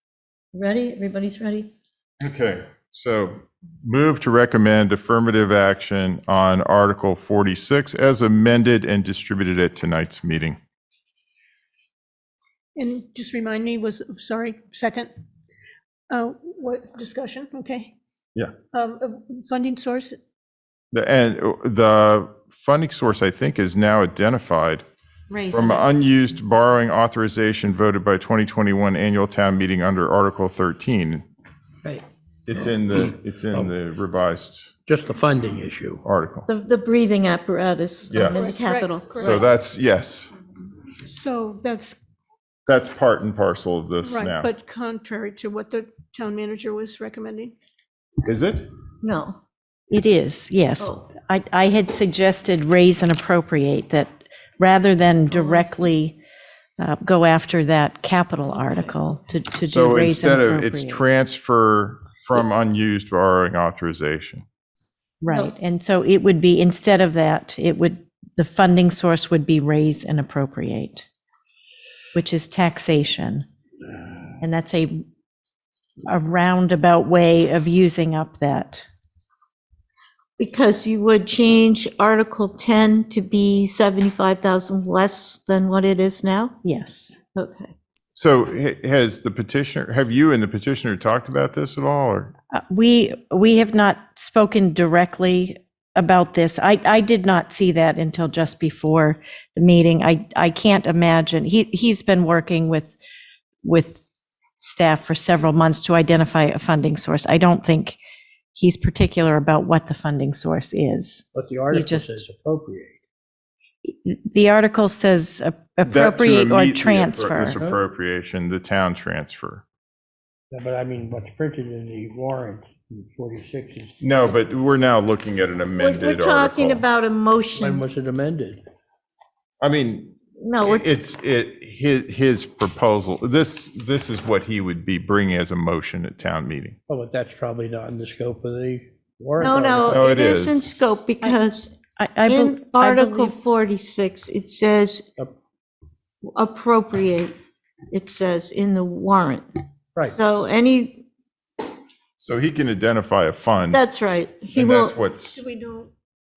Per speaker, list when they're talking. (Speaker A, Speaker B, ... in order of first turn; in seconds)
Speaker A: 0.5-1.7, 36.5-39.5, 49.0-49.4, 50.8-51.1, 80.4-86.5, 87.3-87.7, 125.8-127.8, 130.4-130.8, 139.4-141.7, 142.2-145.1, 146.3-147.3, 147.9-149.4, 150.1-151.0, 153.7-154.9
Speaker B: 2.2-10.6, 20.9-24.9, 25.5-31.2, 32.5-34.7, 36.0-36.5, 38.1-38.3, 39.2-40.3, 42.7-44.5, 48.2-48.7, 59.7-64.4, 88.1-92.3, 115.8-119.6, 124.0-126.8, 129.6-136.8, 139.8-140.8, 152.2-153.8, 154.5-155.4
Speaker C: 12.7-15.1, 16.1-17.9, 18.7-20.2, 38.3-39.4, 41.0-42.0, 44.0-47.5, 155.3-155.9
Speaker D: 25.3-25.9, 49.9-56.2, 56.8-61.0, 65.2-71.0, 72.1-73.5, 74.4-75.0, 76.1-78.8, 86.6-87.2, 92.5-103.0, 103.6-108.0, 108.5-112.2, 113.8-117.6, 142.0-143.3
Speaker E: 32.9-33.7, 34.9-36.0, 111.3-113.0, 120.5-123.9, 127.6-128.6, 136.9-140.0